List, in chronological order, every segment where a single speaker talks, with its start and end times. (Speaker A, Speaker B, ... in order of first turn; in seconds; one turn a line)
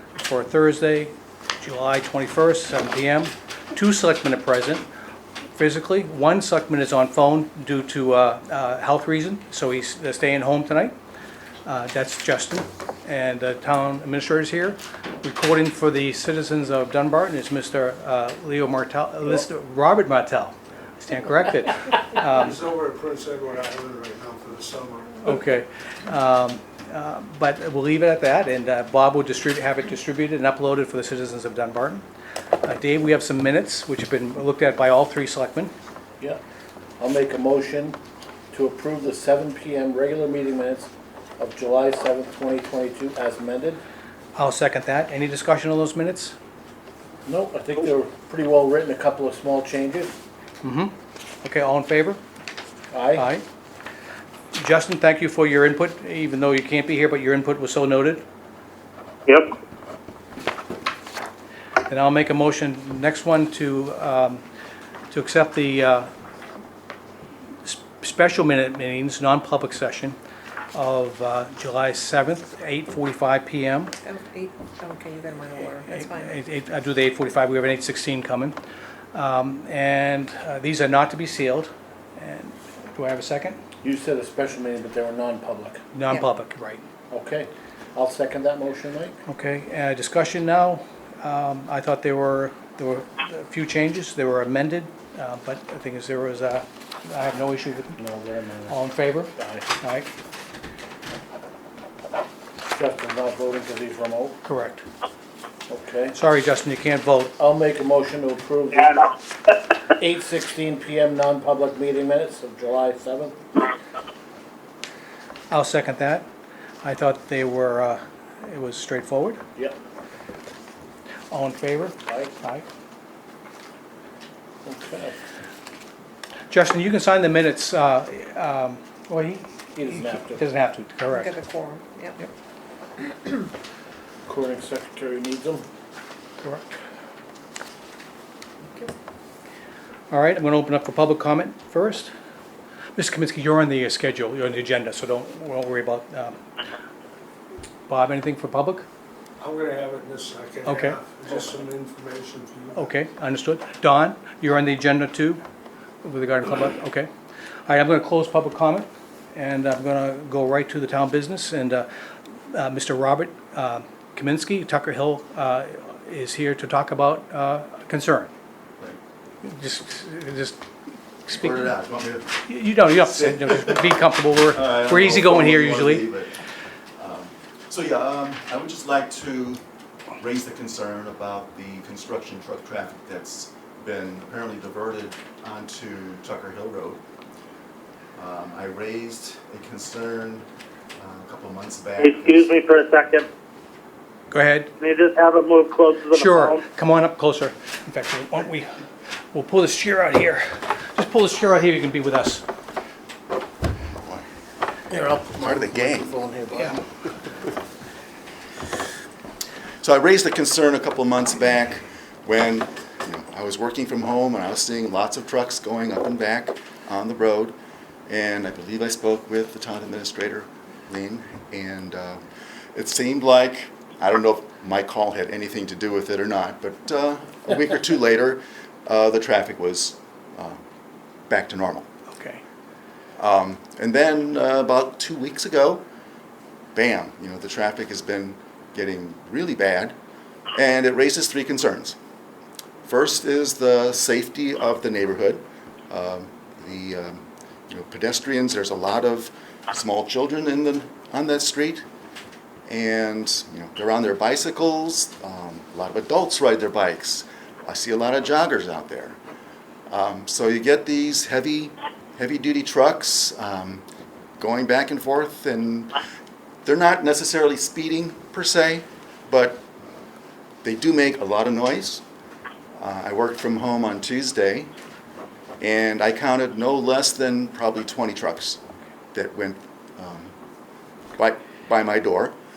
Speaker A: 0.2-4.9
Speaker A: 5.5-10.9
Speaker A: 11.7-22.6
Speaker B: 22.2-25.3
Speaker A: 25.2-32.1
Speaker A: 32.6-35.7
Speaker C: 37.0-38.0
Speaker C: 38.5-43.8
Speaker A: 44.4-46.3
Speaker C: 47.3-50.1
Speaker A: 50.6-52.2
Speaker C: 52.9-53.3
Speaker A: 53.2-53.5
Speaker A: 54.5-58.2
Speaker D: 59.3-59.5
Speaker A: 61.9-64.4
Speaker A: 65.1-66.1
Speaker A: 67.6-70.2
Speaker A: 70.7-73.9
Speaker E: 74.0-76.4
Speaker A: 75.8-78.6
Speaker A: 79.1-83.6
Speaker C: 83.8-85.8
Speaker A: 85.9-86.8
Speaker C: 87.1-89.2
Speaker A: 89.3-98.0
Speaker C: 98.0-98.8
Speaker A: 98.7-100.1
Speaker C: 99.4-99.7
Speaker C: 102.7-104.4
Speaker A: 104.5-104.8
Speaker C: 105.7-106.2
Speaker A: 106.1-107.3
Speaker C: 107.4-109.0
Speaker C: 110.0-113.4
Speaker A: 115.5-116.3
Speaker A: 116.8-119.4
Speaker A: 121.3-122.7
Speaker C: 122.1-122.3
Speaker C: 124.7-125.2
Speaker A: 126.5-131.4
Speaker C: 129.8-130.4
Speaker E: 131.1-132.2
Speaker C: 134.3-135.7
Speaker A: 136.4-136.8
Speaker A: 140.1-142.1
Speaker A: 143.0-146.4
Speaker A: 147.9-148.9
Speaker B: 149.4-152.9
Speaker A: 150.7-151.0
Speaker A: 152.8-155.4
Speaker A: 156.0-157.1
Speaker A: 157.7-161.9
Speaker A: 162.5-168.3
Speaker A: 169.4-170.6
Speaker A: 171.3-171.7
Speaker F: 171.3-172.3
Speaker A: 172.4-176.1
Speaker F: 173.0-173.9
Speaker F: 174.5-176.4
Speaker F: 177.0-179.6
Speaker F: 180.2-187.0
Speaker F: 188.2-190.4
Speaker F: 191.0-192.5
Speaker D: 192.0-193.3
Speaker A: 194.3-194.7
Speaker D: 194.8-196.6
Speaker A: 196.1-198.7
Speaker A: 199.3-202.4
Speaker C: 204.9-206.8
Speaker F: 205.4-206.2
Speaker F: 209.8-217.6
Speaker F: 218.1-222.2
Speaker F: 222.8-230.6
Speaker F: 231.3-231.9
Speaker A: 232.1-232.4
Speaker F: 233.2-235.8
Speaker F: 236.8-240.0
Speaker F: 240.6-242.0
Speaker F: 242.8-251.8
Speaker F: 252.7-259.2
Speaker F: 259.9-263.8
Speaker F: 264.4-265.9
Speaker F: 266.6-269.6
Speaker F: 270.6-272.0
Speaker F: 272.8-274.7
Speaker F: 275.6-278.6
Speaker F: 279.1-280.3
Speaker F: 281.2-282.4